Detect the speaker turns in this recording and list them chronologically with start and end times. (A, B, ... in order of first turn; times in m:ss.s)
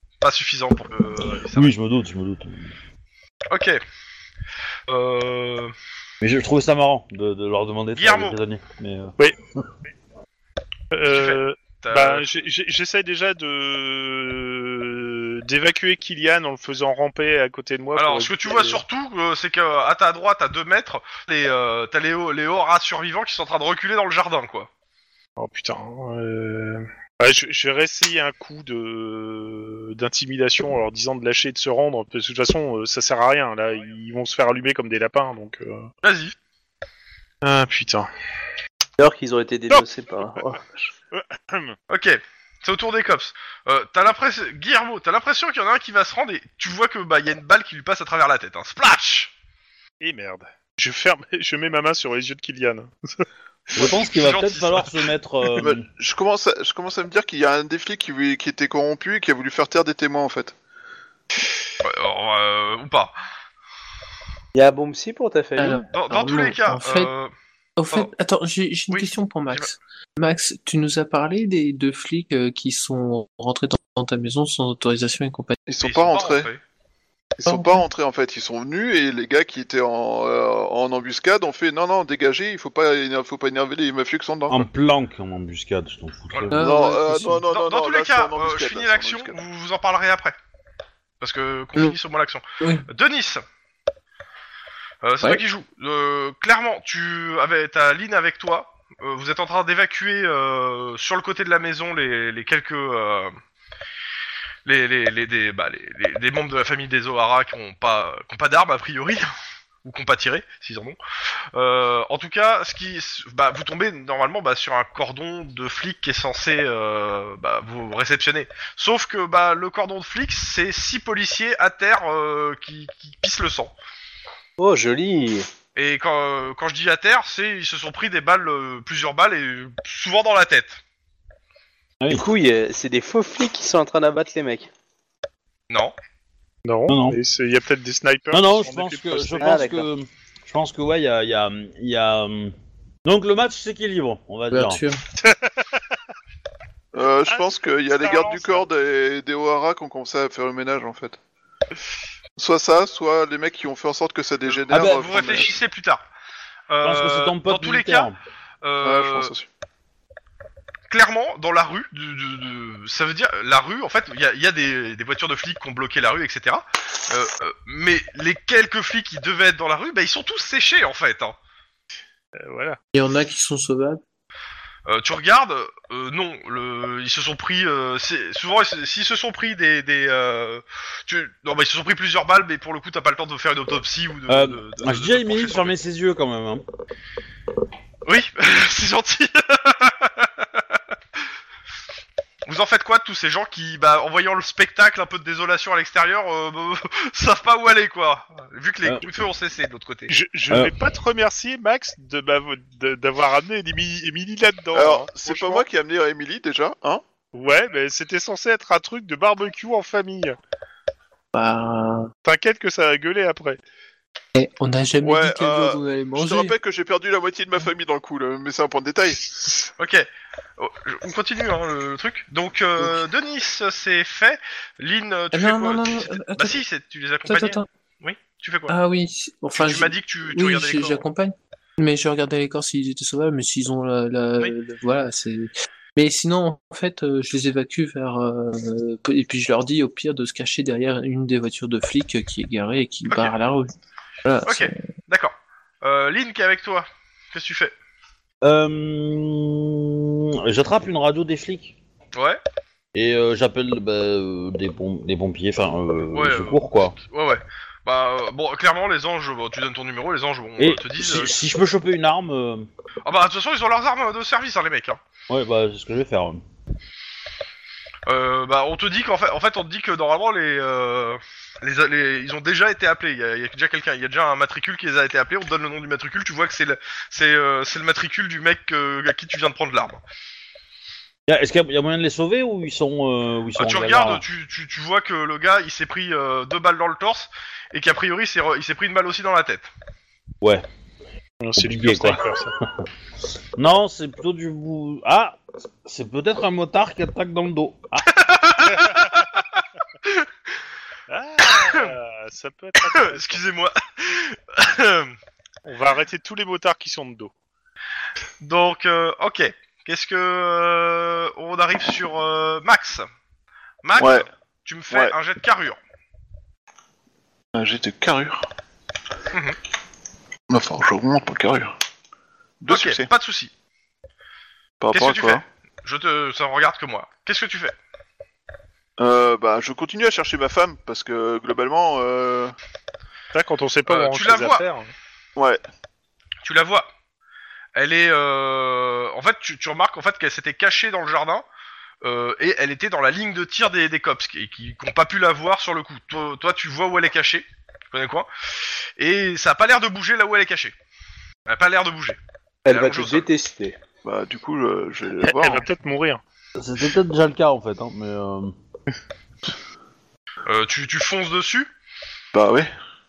0:00.2-0:01.7 A
0:01.5-0:02.7 B
0:03.5-0:03.8 A
0:04.9-0:05.7 A
0:06.2-0:09.2 B
0:08.0-0:08.4 A
0:10.9-0:18.8 C
0:11.1-0:12.2 A
0:18.0-0:24.7 A
0:25.4-0:35.9 C
0:36.0-0:36.3 A
0:37.4-0:38.1 C
0:39.0-0:40.9 D
0:39.7-0:40.5 C
0:41.1-0:41.8 C
0:41.9-0:49.3 A
0:50.0-0:53.3 C
0:53.8-0:55.8 B
0:53.8-0:55.1 A
0:55.6-1:00.6 E
1:01.8-1:03.2 A
1:04.6-1:05.8 D
1:05.6-1:07.1 F
1:05.9-1:07.3 A
1:07.8-1:15.6 F
1:08.9-1:09.7 A
1:15.7-1:16.5 E
1:15.8-1:16.6 A
1:17.4-1:17.8 F
1:17.4-1:24.7 E
1:24.5-1:26.7 B
1:26.5-1:27.4 F
1:26.6-1:29.4 E
1:27.5-1:30.4 A
1:31.2-1:33.4 A
1:32.6-1:32.9 F
1:35.0-1:43.4 A
1:44.6-1:49.3 A
1:49.8-1:51.0 A
1:51.5-2:03.7 A
2:04.6-2:05.5 D
2:05.8-2:10.8 A
2:12.1-2:14.7 D
2:16.6-2:19.7 C
2:16.9-2:17.2 B
2:18.3-2:22.5 B
2:19.4-2:19.9 D
2:23.1-2:24.8 B
2:24.5-2:25.0 F
2:25.2-2:25.8 C
2:26.9-2:31.2 E
2:27.3-2:28.6 C
2:32.4-2:35.5 E
2:34.5-2:36.0 A
2:34.7-2:35.5 B
2:36.7-2:38.1 A
2:36.8-2:38.2 B
2:38.6-2:39.3 A
2:38.8-2:39.5 E
2:40.9-2:51.4 A
2:52.4-2:52.8 C
2:53.0-2:54.0 F
2:54.9-3:05.7 A
3:04.3-3:06.6 B
3:08.0-3:10.6 A
3:12.5-3:20.2 A
3:20.1-3:25.6 C
3:24.7-3:27.0 E
3:27.3-3:30.4 C
3:31.3-3:32.1 F
3:32.2-3:33.6 C
3:34.4-3:36.5 F
3:35.0-3:39.3 E
3:39.8-3:40.1 A
3:40.6-3:48.8 A
3:45.3-3:46.6 F
3:47.3-3:47.7 F
3:48.7-4:03.7 F
3:49.6-3:51.0 A
4:03.1-4:03.4 A
4:04.2-4:04.8 F
4:04.5-4:07.7 A
4:08.4-4:11.8 B
4:12.2-4:12.4 A
4:13.0-4:17.0 B
4:16.1-4:21.3 A
4:20.6-4:22.7 B
4:23.0-4:25.0 A
4:25.3-4:26.4 B
4:28.1-4:40.0 A
4:41.3-4:44.2 B
4:43.6-4:49.7 A
4:51.4-4:52.5 C
4:51.6-4:52.8 B
4:53.6-4:58.1 B
4:58.2-4:59.4 A
4:58.8-4:59.2 C
5:01.1-5:03.4 C
5:01.5-5:01.9 A
5:02.8-5:05.2 A
5:05.6-5:07.3 C
5:08.4-5:13.1 A
5:13.8-5:15.8 A
5:14.0-5:14.3 E
5:17.6-5:18.4 E
5:19.3-5:19.6 A
5:20.5-5:21.7 E
5:22.6-5:23.1 E
5:22.7-5:23.5 A
5:24.8-5:25.4 E
5:24.9-5:27.7 A
5:29.0-5:32.5 E
5:33.3-5:34.9 C
5:33.9-5:34.6 A
5:35.4-5:35.6 E
5:36.4-5:36.9 A
5:37.8-5:41.4 A
5:42.0-5:48.3 A
5:49.0-5:50.8 A
5:51.5-5:53.3 A
5:52.6-5:53.8 D
5:54.0-5:55.7 E
5:55.2-5:56.2 C
5:56.6-5:58.5 B
6:00.4-6:01.7 A
6:02.3-6:02.7 E